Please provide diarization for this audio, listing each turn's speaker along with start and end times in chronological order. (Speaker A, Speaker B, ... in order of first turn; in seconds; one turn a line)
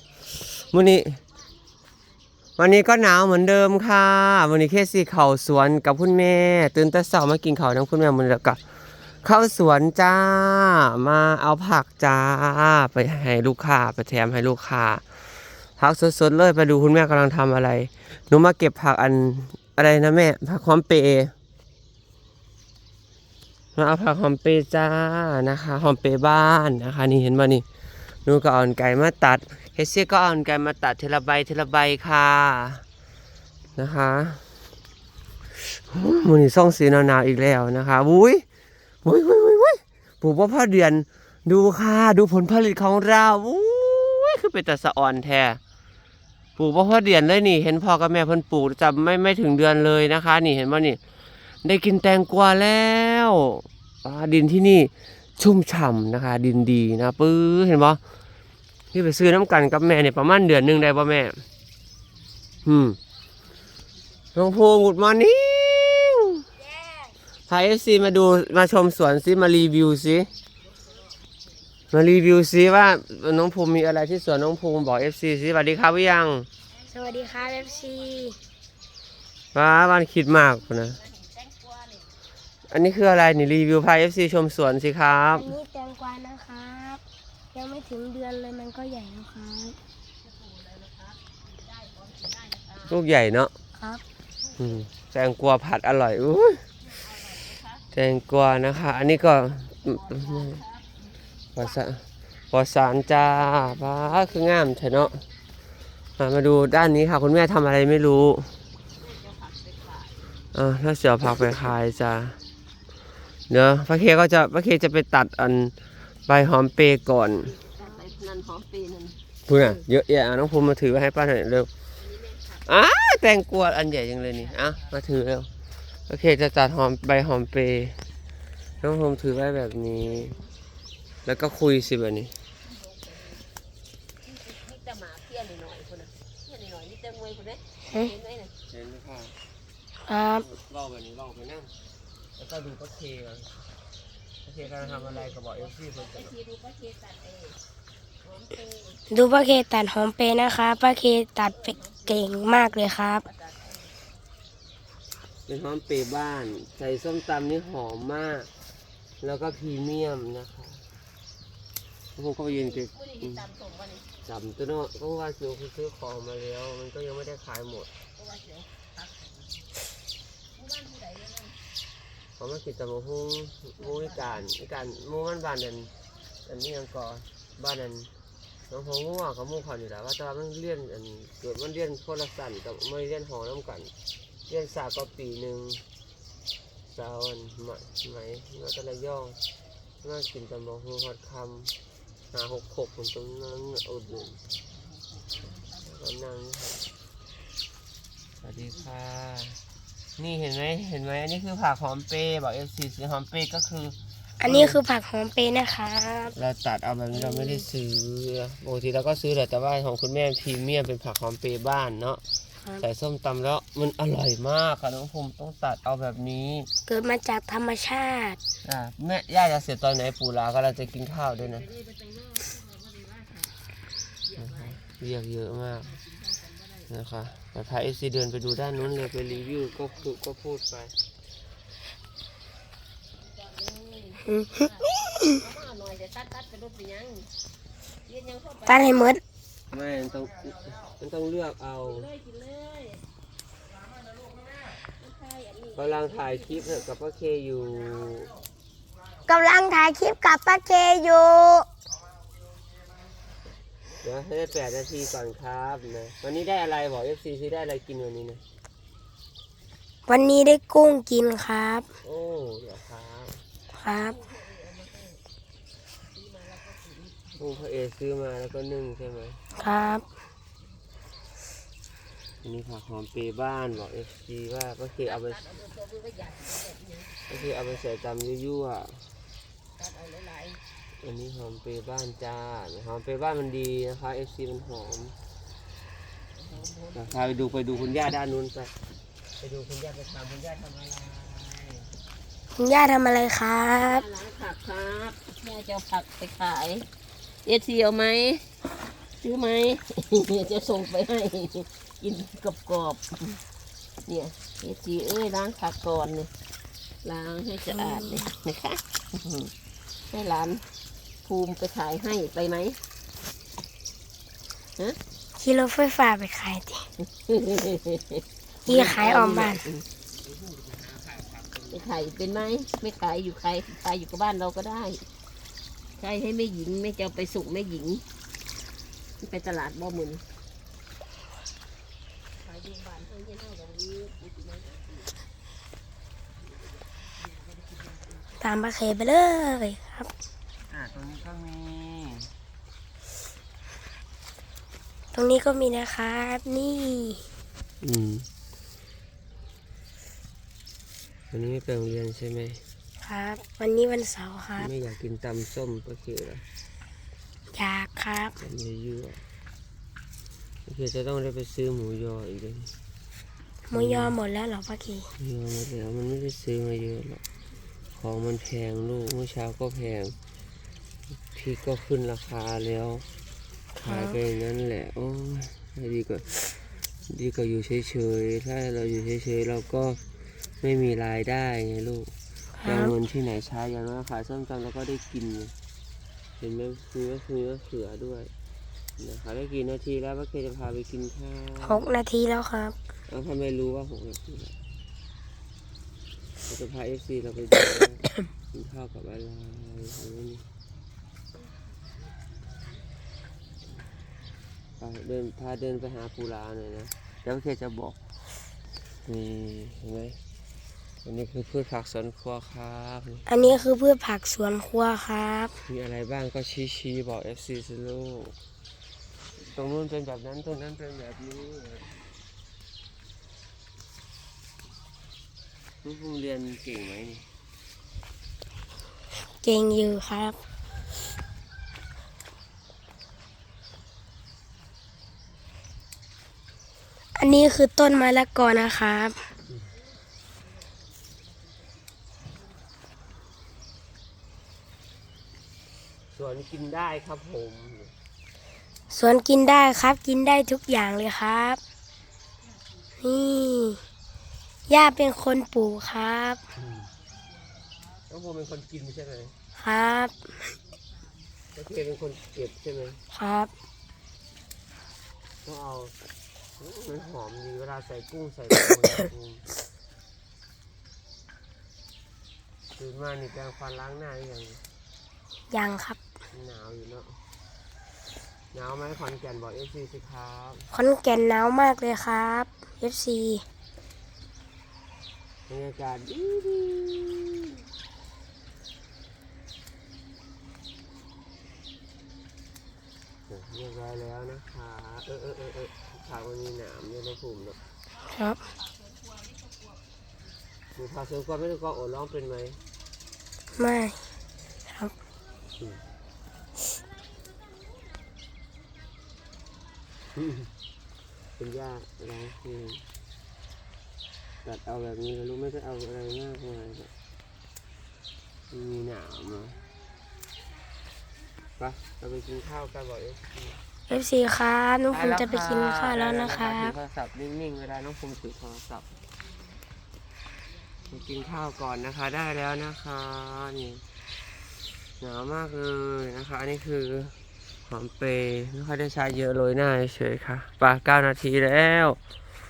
Speaker A: 0.6-1.2
Speaker A: 2.6-8.6
Speaker A: 9.2-15.0
Speaker A: 15.8-21.3
Speaker A: 23.8-27.6
Speaker A: 28.2-32.8
Speaker A: 33.8-34.4
Speaker A: 35.5-38.4
Speaker A: 39.0-45.6
Speaker A: 46.6-51.0
Speaker A: 51.6-58.0
Speaker A: 58.9-61.4
Speaker A: 62.6-63.0
Speaker A: 64.3-66.5
Speaker B: 66.6-67.1
Speaker A: 67.5-70.3
Speaker A: 71.9-76.5
Speaker C: 76.8-78.1
Speaker B: 76.9-78.4
Speaker A: 79.5-81.0
Speaker C: 80.7-82.2
Speaker A: 82.7-85.5
Speaker B: 85.3-87.0
Speaker B: 87.5-89.8
Speaker C: 90.2-92.9
Speaker A: 92.8-93.5
Speaker B: 93.8-94.0
Speaker A: 94.6-96.6
Speaker C: 97.0-97.8
Speaker A: 97.9-100.6
Speaker C: 99.9-101.0
Speaker A: 101.5-105.2
Speaker C: 103.8-104.2
Speaker A: 106.2-108.5
Speaker C: 108.9-110.3
Speaker A: 110.5-112.4
Speaker A: 113.5-115.7
Speaker A: 116.3-117.5
Speaker C: 117.5-119.7
Speaker A: 119.5-121.7
Speaker C: 122.0-122.6
Speaker A: 122.6-125.5
Speaker C: 124.5-124.9
Speaker A: 126.1-128.0
Speaker A: 128.8-130.4
Speaker A: 131.2-132.4
Speaker C: 132.6-133.4
Speaker C: 134.2-138.5
Speaker A: 138.7-139.3
Speaker B: 140.1-140.5
Speaker A: 140.4-141.7
Speaker A: 142.4-143.5
Speaker A: 144.4-146.3
Speaker C: 144.6-147.6
Speaker C: 148.2-149.0
Speaker B: 149.1-153.2
Speaker C: 151.5-154.0
Speaker A: 155.5-158.5
Speaker A: 159.2-160.8
Speaker A: 162.2-163.5
Speaker C: 162.5-164.1
Speaker A: 164.2-167.9
Speaker C: 168.1-169.6
Speaker C: 170.5-171.6
Speaker A: 172.4-175.9
Speaker C: 173.8-174.3
Speaker A: 176.4-178.1
Speaker A: 178.7-183.9
Speaker A: 184.5-185.8
Speaker A: 186.9-189.4
Speaker A: 190.0-191.7
Speaker A: 192.3-194.4
Speaker C: 195.3-195.6
Speaker A: 195.8-196.8
Speaker A: 198.4-199.6
Speaker A: 200.2-204.8
Speaker B: 204.4-206.3
Speaker A: 206.3-212.2
Speaker B: 207.2-207.6
Speaker A: 212.8-216.7
Speaker B: 216.9-218.4
Speaker A: 218.6-221.7
Speaker C: 221.4-223.6
Speaker C: 224.3-224.7
Speaker A: 224.4-226.0
Speaker C: 226.0-226.8
Speaker A: 226.9-230.9
Speaker C: 233.2-237.3
Speaker B: 234.3-235.4
Speaker C: 237.9-239.1
Speaker B: 238.7-239.2
Speaker A: 239.7-242.1
Speaker C: 241.8-243.0
Speaker C: 244.8-246.7
Speaker A: 245.7-248.3
Speaker B: 249.3-251.7
Speaker A: 254.0-258.4
Speaker B: 260.1-261.9
Speaker A: 262.0-263.4
Speaker B: 263.7-264.2
Speaker C: 264.0-265.2
Speaker C: 266.1-267.4
Speaker A: 267.4-269.4
Speaker B: 269.6-270.1
Speaker A: 272.4-275.6
Speaker C: 275.0-277.4
Speaker A: 277.3-279.1
Speaker C: 279.8-280.6
Speaker A: 281.0-285.1
Speaker C: 286.3-287.5
Speaker A: 286.9-288.7
Speaker A: 289.4-291.9
Speaker B: 292.5-294.0
Speaker C: 293.8-296.9
Speaker C: 297.4-298.5
Speaker C: 299.2-303.4
Speaker C: 304.0-306.3
Speaker C: 307.0-309.5
Speaker B: 307.7-308.1
Speaker C: 310.1-310.6
Speaker C: 311.2-312.8
Speaker B: 315.4-316.9
Speaker C: 317.3-319.8
Speaker B: 318.6-319.7
Speaker A: 320.2-322.0
Speaker C: 321.7-325.0
Speaker C: 326.0-328.0
Speaker C: 329.2-330.2
Speaker C: 332.4-335.1
Speaker C: 336.8-338.3
Speaker B: 338.4-340.1
Speaker A: 340.7-342.3
Speaker B: 345.1-347.2
Speaker A: 347.8-348.3
Speaker A: 351.3-352.6
Speaker B: 353.0-354.7
Speaker A: 354.6-356.4
Speaker B: 357.5-358.4
Speaker A: 358.4-359.2
Speaker A: 360.6-362.7
Speaker B: 363.7-365.1
Speaker A: 363.7-364.2
Speaker A: 365.2-367.2
Speaker A: 368.0-370.1
Speaker A: 371.3-373.0
Speaker A: 373.8-380.0
Speaker B: 373.8-374.2
Speaker A: 380.6-382.1
Speaker B: 382.6-382.9
Speaker A: 382.6-385.5
Speaker A: 386.4-388.3
Speaker A: 389.0-392.0
Speaker B: 391.6-392.8
Speaker A: 393.1-394.5
Speaker A: 396.5-400.4
Speaker A: 404.8-408.0
Speaker A: 409.0-410.2
Speaker A: 411.0-413.6
Speaker B: 413.3-415.6
Speaker A: 415.6-418.3
Speaker A: 419.4-421.9
Speaker A: 425.8-427.3
Speaker B: 429.4-430.4
Speaker B: 437.1-439.2
Speaker A: 446.1-447.9
Speaker B: 448.9-451.6
Speaker B: 453.0-453.8
Speaker B: 454.7-456.4
Speaker A: 458.1-459.3
Speaker B: 459.6-460.2
Speaker A: 461.5-463.0
Speaker B: 463.1-463.5
Speaker A: 465.4-465.9
Speaker A: 466.6-469.4
Speaker A: 472.8-474.6
Speaker B: 475.5-476.0
Speaker A: 476.3-477.2
Speaker A: 478.5-480.7
Speaker B: 480.7-483.4
Speaker A: 485.5-487.6
Speaker A: 493.3-497.6
Speaker B: 498.1-498.4
Speaker C: 499.1-499.4
Speaker A: 500.7-502.6
Speaker B: 503.6-504.0
Speaker B: 504.7-504.9
Speaker A: 510.2-510.5
Speaker A: 511.4-512.8
Speaker A: 514.4-516.9
Speaker A: 518.5-519.6
Speaker A: 521.6-523.6
Speaker B: 523.9-526.7
Speaker A: 524.9-528.9
Speaker A: 530.9-533.8
Speaker A: 535.0-537.1
Speaker A: 537.7-542.0